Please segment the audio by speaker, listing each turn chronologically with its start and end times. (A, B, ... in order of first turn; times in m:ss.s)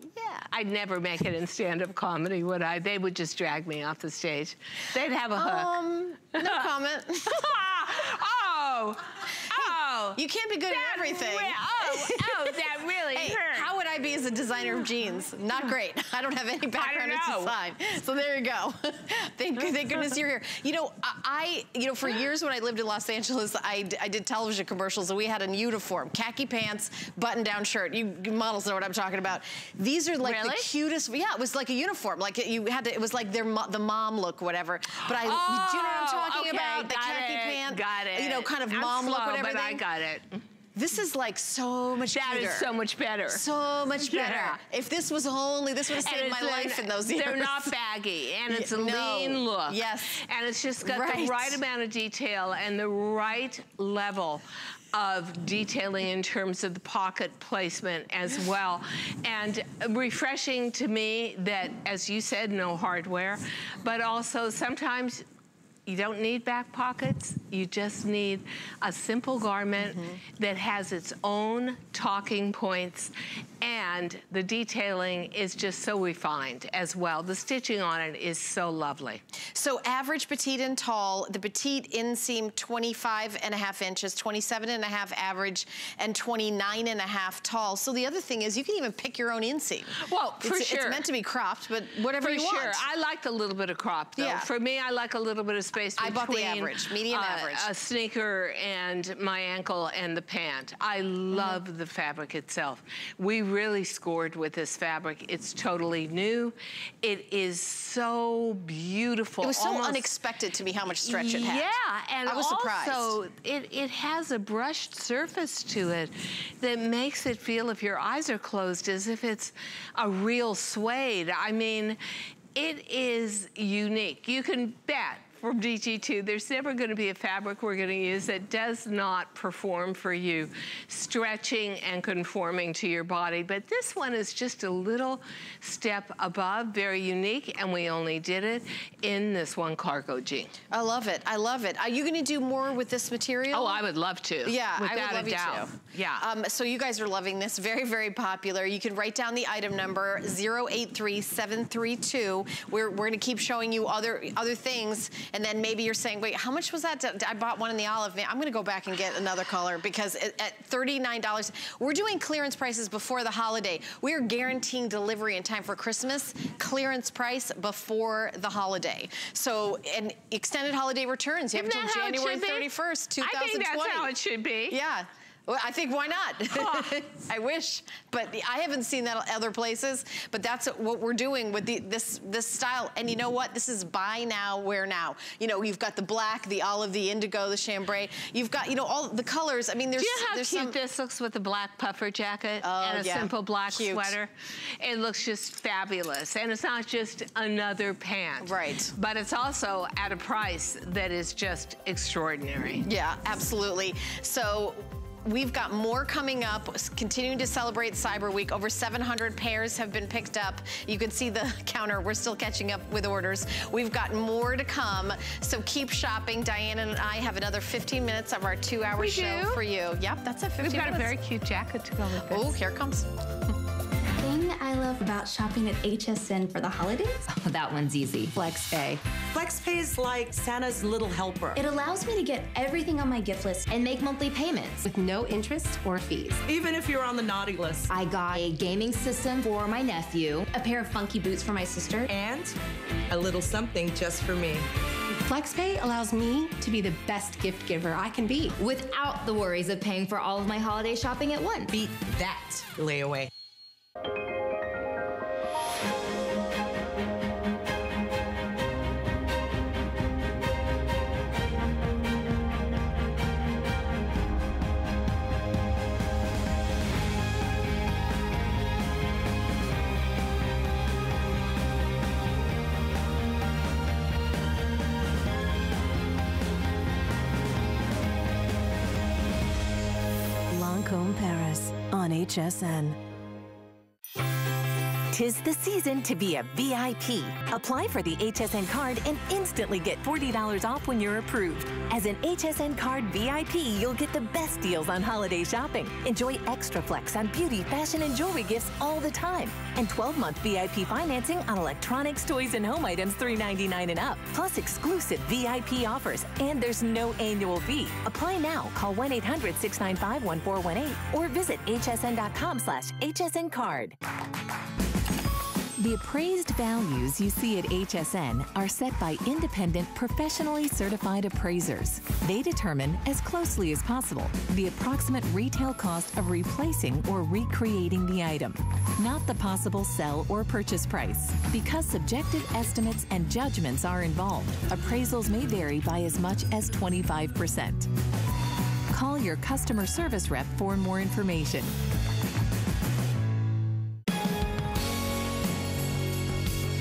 0:00.1-0:00.4 A
0:00.5-0:05.8 B
0:05.3-0:07.5 A
0:06.4-0:06.7 B
0:07.3-0:13.7 B
0:09.5-0:39.8 A
0:16.7-0:17.6 B
0:30.2-0:30.7 B
0:35.0-0:40.4 B
0:40.7-0:42.7 A
0:42.1-0:43.4 B
0:43.3-0:47.7 A
0:44.0-0:44.6 B
0:45.9-1:05.2 B
0:48.5-0:50.2 A
0:50.8-0:51.6 A
1:05.9-1:19.2 B
1:19.6-1:32.8 A
1:30.0-1:31.0 B
1:32.2-1:50.1 B
1:34.2-1:34.5 A
1:36.0-1:37.7 A
1:49.4-1:53.1 A
1:51.0-2:02.0 B
2:02.6-2:20.6 B
2:20.7-2:23.8 A
2:23.5-2:26.3 B
2:24.4-2:54.1 A
2:51.5-2:52.7 B
2:53.2-2:54.8 B
2:54.7-3:10.8 A
2:56.5-2:56.9 B
3:10.0-3:22.8 B
3:12.6-3:14.1 A
3:18.4-3:18.9 A
3:22.8-3:41.1 A
3:39.0-3:39.6 B
3:40.6-3:42.6 B
3:42.3-3:43.1 A
3:44.2-3:47.2 C
3:47.3-3:48.9 D
3:49.3-3:51.6 E
3:51.6-3:53.7 C
3:53.7-3:54.8 D
3:54.9-3:55.8 F
3:56.0-3:56.3 C
3:56.4-3:57.9 E
3:57.9-4:00.4 D
4:00.5-4:02.0 C
4:02.0-4:02.6 E
4:03.1-4:04.6 E
4:05.2-4:08.6 F
4:08.6-4:11.7 D
4:11.7-4:13.3 E
4:40.5-4:43.0 G
4:45.1-5:14.0 G
5:15.8-5:37.9 G
5:38.9-5:41.7 G